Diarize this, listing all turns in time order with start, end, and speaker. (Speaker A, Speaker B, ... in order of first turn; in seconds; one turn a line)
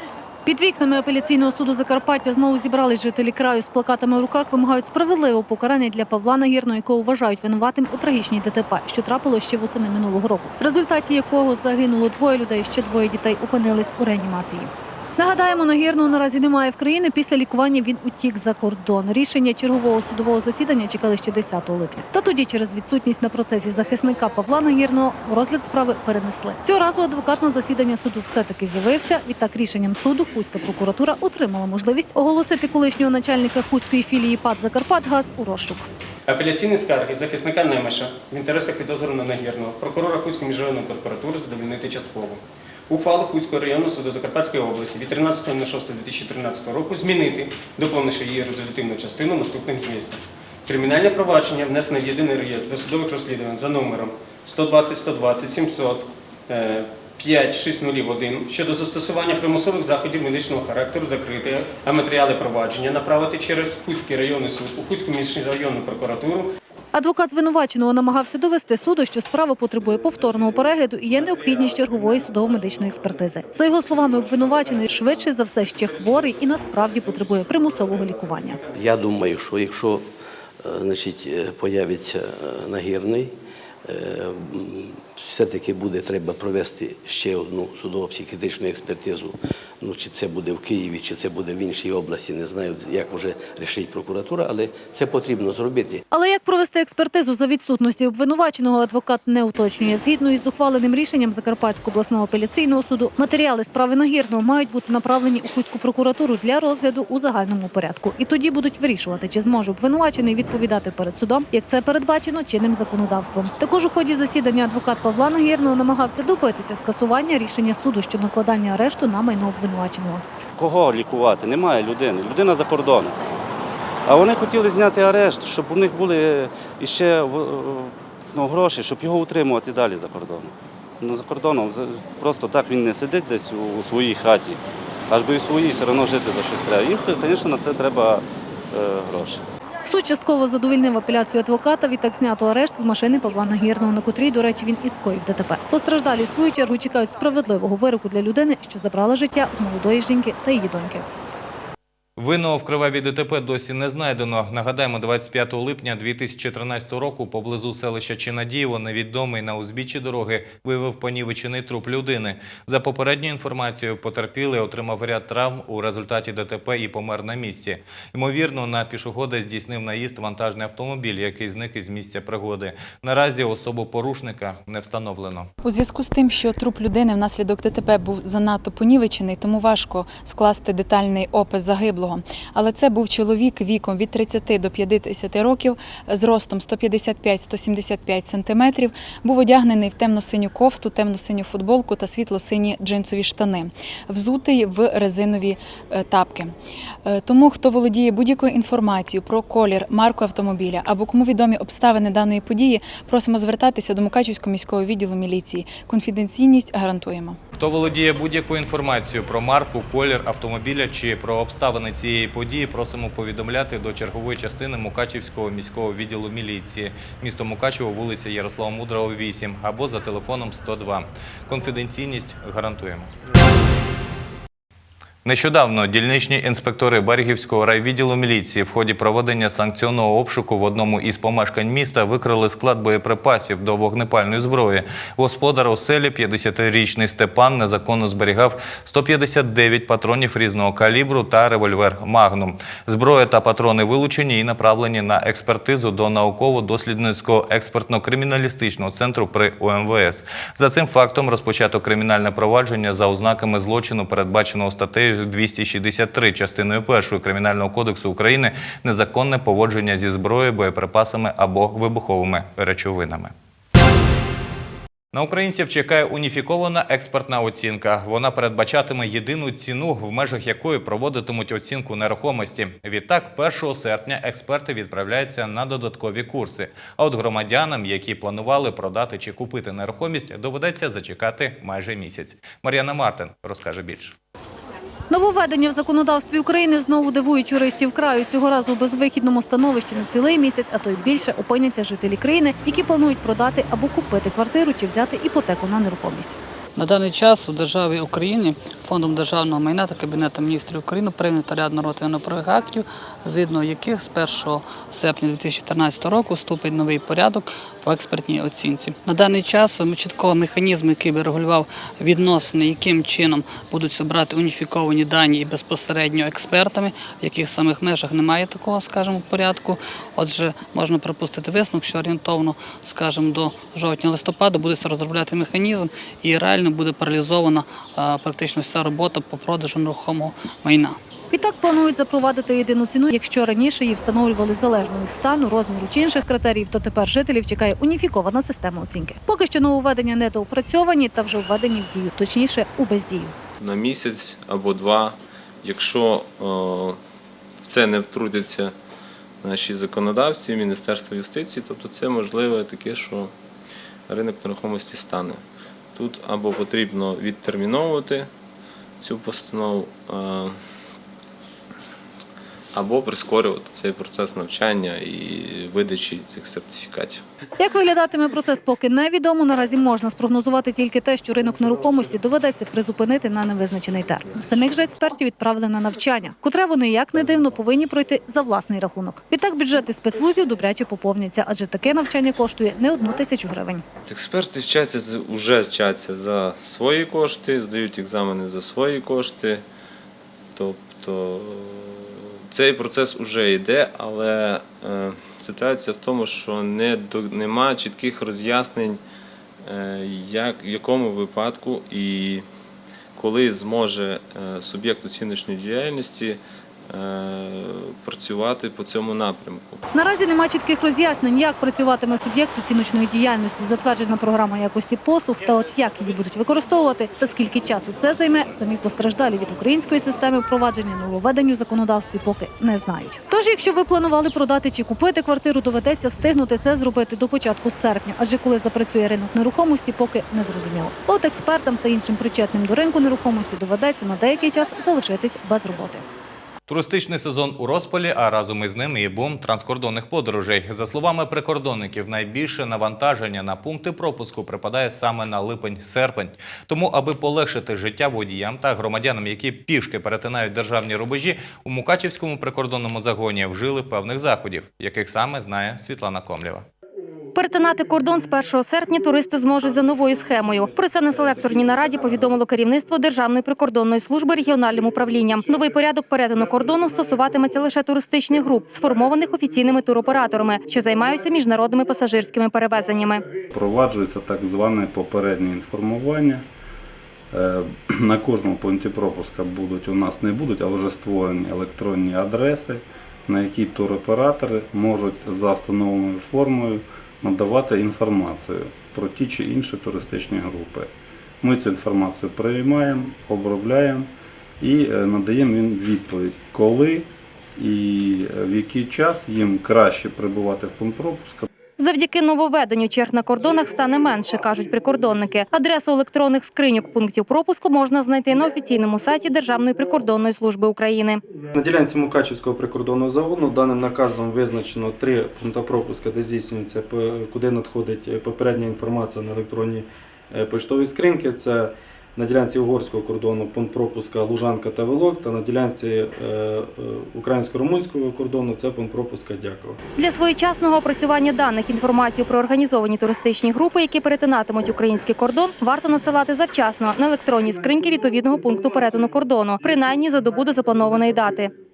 Speaker A: 0.5-35.9
Speaker B: 36.3-66.5
Speaker A: 66.9-78.6
Speaker C: 78.7-80.1
Speaker C: 80.6-83.3
Speaker C: 83.8-96.0
Speaker A: 96.1-120.2
Speaker D: 120.6-123.2
Speaker D: 124.1-134.6
Speaker D: 135.1-139.4
Speaker A: 139.8-151.1
Speaker E: 152.2-175.5
Speaker F: 175.6-207.4
Speaker E: 207.5-223.1
Speaker E: 225.2-263.3
Speaker E: 265.1-284.2
Speaker A: 285.1-296.4
Speaker D: 296.8-331.0
Speaker A: 331.3-343.4
Speaker G: 343.6-347.0
Speaker G: 347.6-348.7
Speaker G: 349.4-353.3
Speaker G: 354.1-355.4
Speaker G: 355.9-358.3
Speaker G: 359.0-360.6
Speaker G: 362.7-367.2
Speaker A: 367.6-383.8
Speaker G: 384.1-389.6
Speaker G: 390.6-399.0
Speaker G: 399.6-402.4
Speaker G: 403.1-409.8
Speaker A: 409.9-436.1
Speaker E: 436.7-456.6
Speaker H: 457.4-473.2
Speaker I: 473.5-476.4
Speaker I: 477.3-490.9
Speaker I: 491.4-501.5
Speaker H: 501.8-511.2
Speaker J: 511.5-529.8
Speaker H: 530.0-541.5